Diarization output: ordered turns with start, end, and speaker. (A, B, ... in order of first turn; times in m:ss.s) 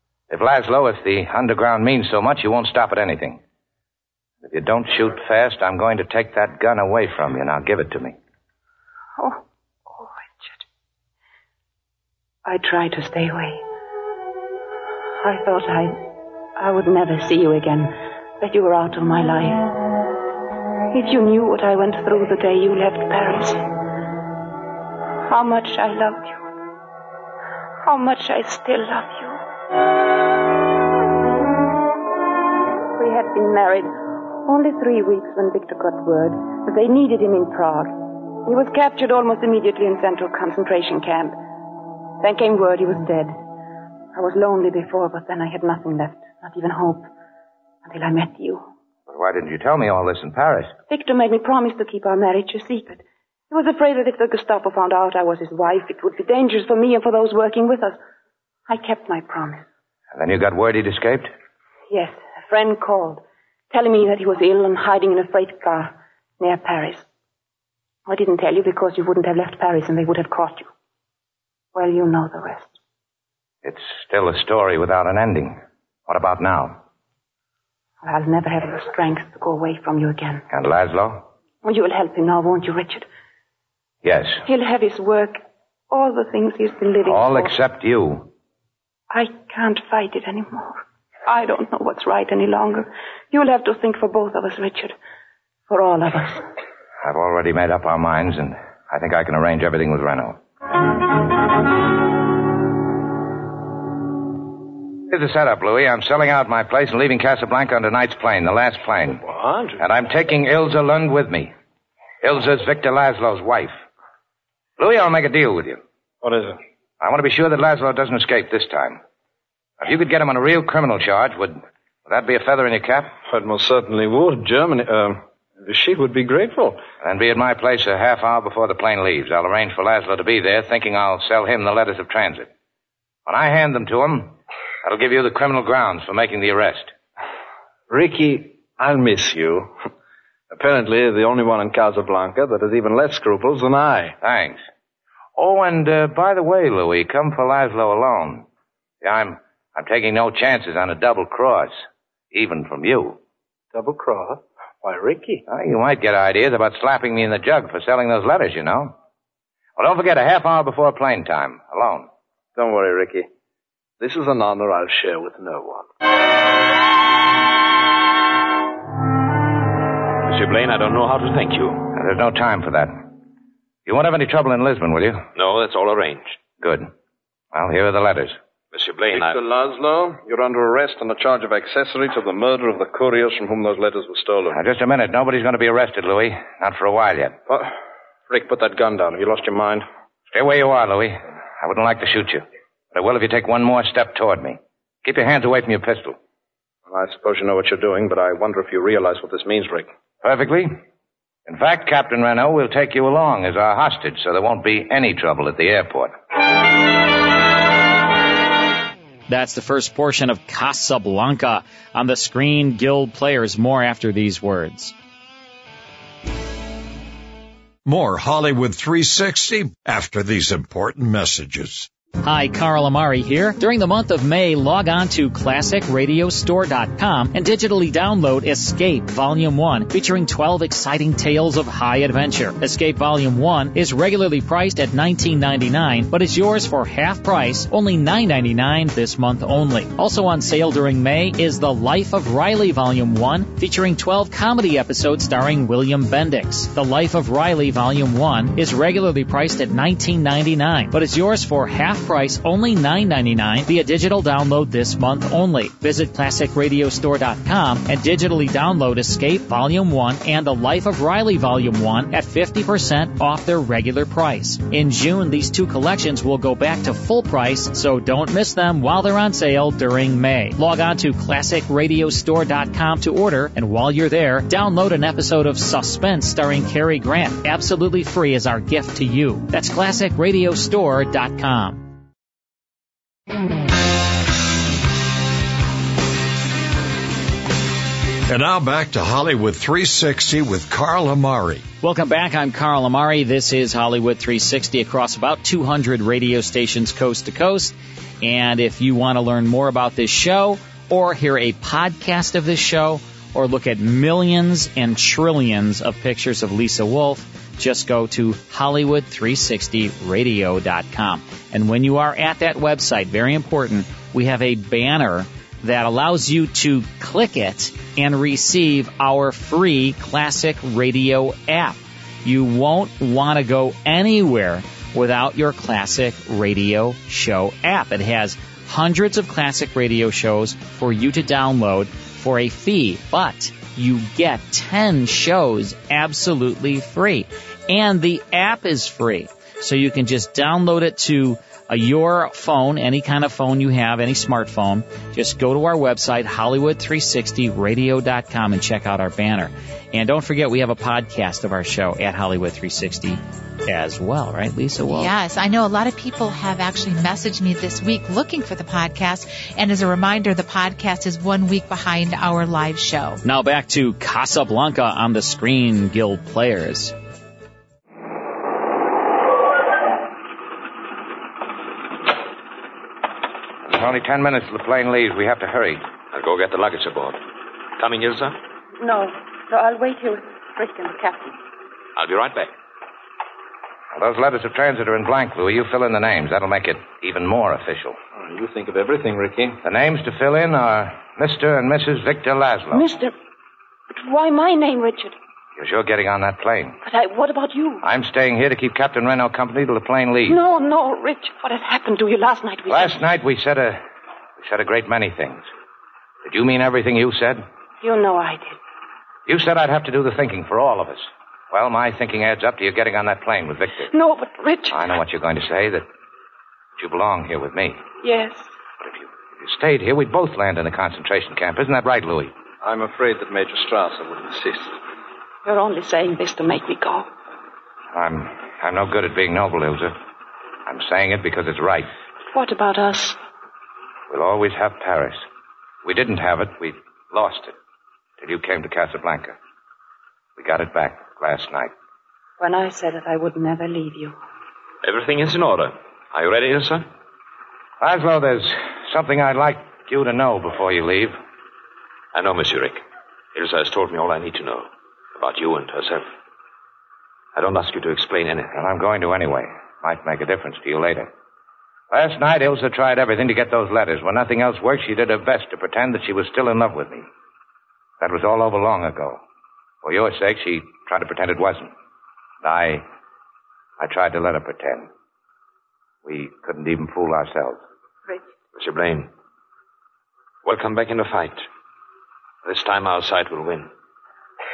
0:00.3-0:03.4 A
0:04.4-0:08.2 A
0:09.2-0:10.6 B
0:12.4-0:13.6 B
0:15.2-0:16.0 B
0:16.6-0:19.6 B
0:20.9-0:23.6 B
0:25.3-0:26.4 B
0:27.8-0:29.4 B
0:33.0-0:33.9 B
0:34.4-0:41.4 B
0:42.2-0:43.4 B
0:44.2-0:47.1 B
0:47.8-0:48.6 B
0:49.1-0:50.7 A
0:50.9-0:58.0 B
0:58.7-0:59.6 B
1:00.1-1:01.3 A
1:01.9-1:07.1 B
1:08.1-1:10.7 B
1:11.8-1:12.7 B
1:13.6-1:15.6 A
1:16.1-1:16.8 A
1:18.0-1:20.4 B
1:20.5-1:21.2 A
1:21.6-1:23.1 B
1:24.0-1:24.4 A
1:24.4-1:27.6 B
1:27.1-1:28.3 A
1:29.1-1:35.0 B
1:35.7-1:36.4 B
1:37.0-1:40.4 A
1:45.1-1:49.2 A
1:49.2-1:49.8 C
1:49.8-1:51.5 A
1:52.2-1:53.7 A
1:54.8-1:55.8 A
1:56.2-1:56.6 C
1:57.0-1:59.0 A
1:59.8-2:03.1 A
2:03.3-2:06.8 C
2:07.0-2:12.5 A
2:13.3-2:16.9 A
2:17.9-2:19.7 C
2:20.5-2:24.2 C
2:24.2-2:24.6 A
2:25.4-2:28.4 A
2:29.0-2:33.2 A
2:33.7-2:35.4 C
2:35.5-2:38.9 A
2:39.8-2:42.1 A
2:42.6-2:43.3 C
2:44.0-2:45.9 C
2:50.2-2:51.9 D
2:51.9-2:53.1 A
2:53.9-2:55.2 A
2:55.4-2:56.4 D
2:56.6-2:56.9 A
2:57.5-2:58.4 A
2:58.7-2:59.4 D
2:59.1-3:04.6 C
3:04.5-3:07.4 A
3:08.3-3:09.9 C
3:10.3-3:16.2 A
3:16.9-3:19.9 C
3:20.2-3:20.7 A
3:21.5-3:26.1 A
3:29.3-3:34.9 E
3:37.8-3:41.9 F
3:42.2-4:41.9 E
4:48.3-4:51.6 F
4:51.8-5:55.1 E
5:54.9-6:03.2 G
6:03.2-6:06.9 E
6:13.7-6:15.8 A
6:16.1-6:17.2 D
6:17.8-6:18.4 D
6:18.8-6:21.4 B
6:22.0-6:22.5 D
6:23.9-6:28.0 A
6:28.2-6:29.6 C
6:29.6-6:32.8 A
6:32.7-6:33.1 B
6:33.9-6:35.2 B
6:35.6-6:36.8 A
6:36.8-6:37.8 B
6:37.8-6:40.4 A
6:40.3-6:43.0 B
6:42.7-6:43.8 A
6:44.4-6:45.5 A
6:46.2-6:47.4 A
6:47.8-6:48.6 B
6:49.3-6:53.9 A
6:53.9-6:54.8 B
6:54.7-6:55.8 A
6:56.8-6:57.8 A
6:58.0-6:58.5 B
6:58.8-7:02.3 A
7:02.6-7:04.8 C
7:05.4-7:07.1 B
7:07.9-7:10.0 A
7:10.7-7:11.9 A
7:12.3-7:13.2 B
7:14.1-7:15.2 A
7:15.8-7:17.6 A
7:18.2-7:19.4 A
7:20.4-7:21.7 A
7:22.4-7:24.2 B
7:24.8-7:26.9 D
7:27.8-7:31.2 A
7:32.1-7:32.8 D
7:33.4-7:36.1 D
7:37.4-7:38.6 D
7:38.6-7:41.1 A
7:41.9-7:47.0 A
7:48.0-7:49.2 A
7:49.8-7:51.7 A
7:52.4-7:52.8 A
7:53.8-7:54.9 A
7:56.0-7:57.6 A
7:58.5-7:59.1 D
8:00.4-8:01.5 D
8:02.4-8:03.7 D